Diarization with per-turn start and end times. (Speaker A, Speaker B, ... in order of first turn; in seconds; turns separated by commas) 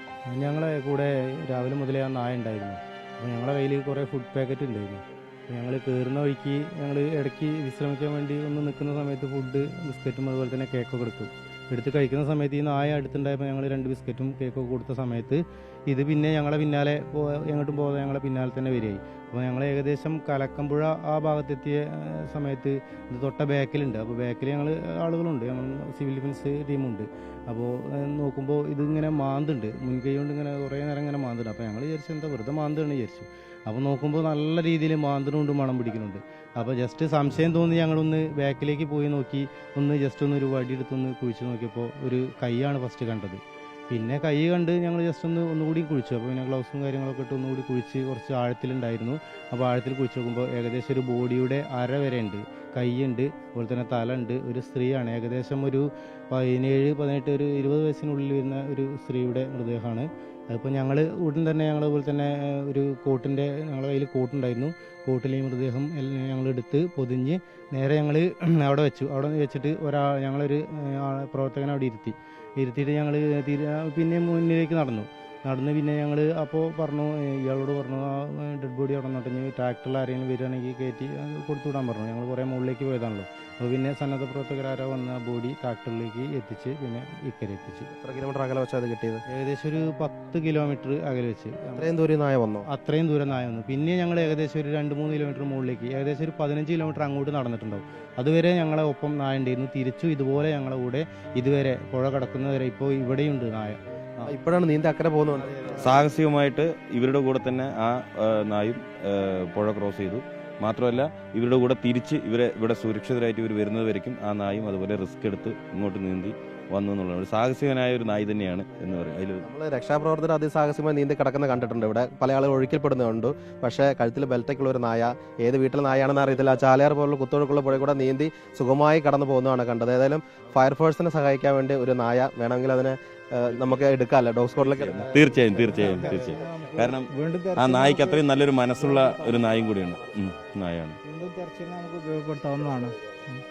Speaker A: 0.3-87.9, Speaker B: 88.0-89.2, Speaker A: 89.3-91.9, Speaker B: 91.8-92.7, Speaker A: 92.7-104.3, Speaker B: 104.3-105.5, Speaker A: 105.4-106.0, Speaker C: 105.8-119.5, Speaker B: 119.4-135.2, Speaker C: 133.5-133.8, Speaker C: 134.6-141.0, Speaker A: 135.2-136.9, Speaker D: 135.7-138.2, Speaker D: 138.8-139.1, Speaker D: 141.1-143.4